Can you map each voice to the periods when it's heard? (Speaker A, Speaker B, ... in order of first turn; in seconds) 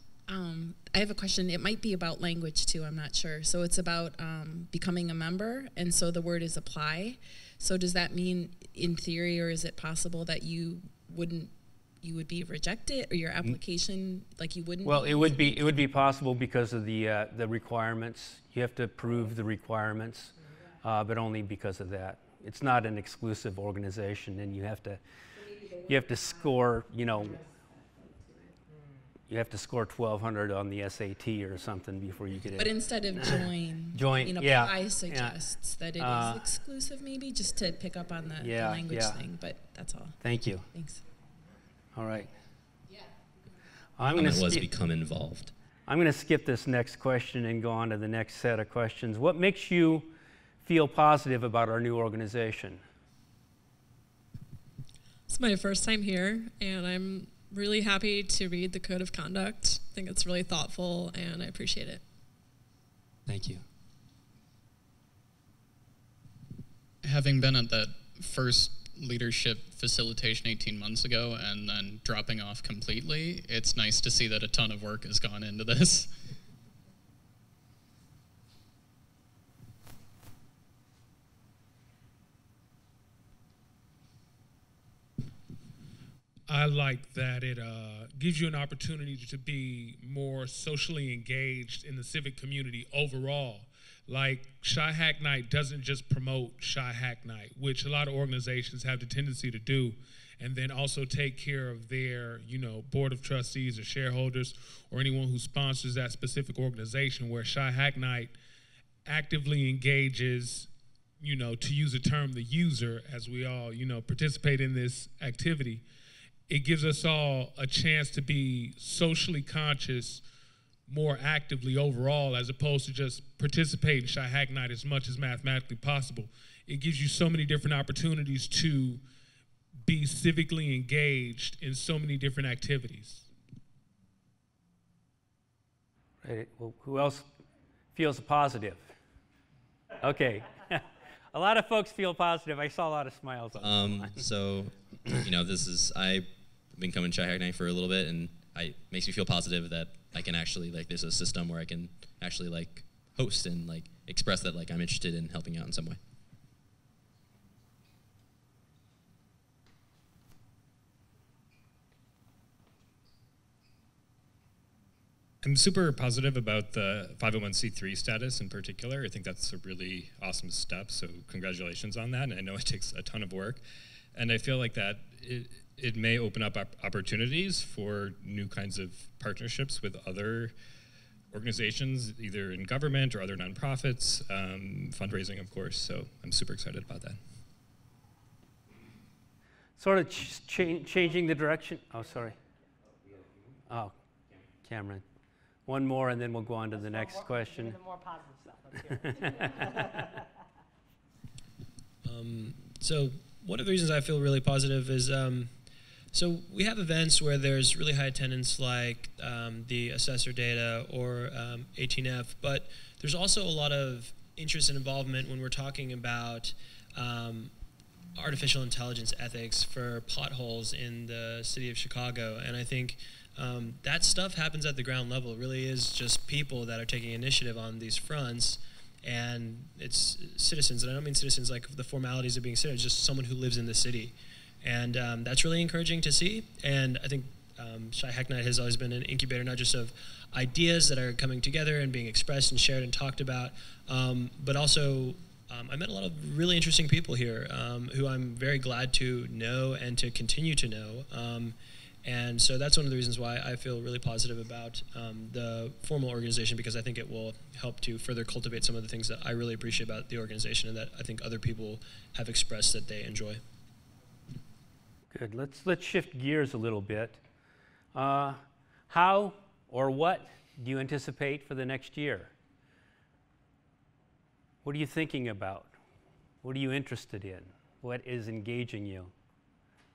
Speaker A: 0.3-15.8, 32.5-40.2, 40.7-41.0
Speaker B: 14.8-25.0, 25.8-27.4, 29.3-35.4, 36.0-36.4, 38.4-39.2, 40.2-40.6, 41.9-42.3, 44.0-44.7, 45.9-52.8, 63.3-63.6, 136.2-137.3, 137.9-138.9, 140.0-144.2, 189.8-192.4, 193.7-193.9, 194.6-195.0, 195.7-197.8, 198.8-199.6, 265.1-267.2, 267.9-272.3, 274.6-275.7, 276.4-279.1
Speaker C: 44.0-45.5, 143.6-156.0
Speaker D: 55.3-62.0
Speaker E: 67.0-76.2
Speaker F: 86.5-108.3, 109.0-115.8, 116.5-120.2, 120.9-129.0, 129.8-133.3
Speaker G: 165.4-173.6, 174.1-180.5, 181.3-187.2
Speaker H: 202.0-217.5, 218.1-263.4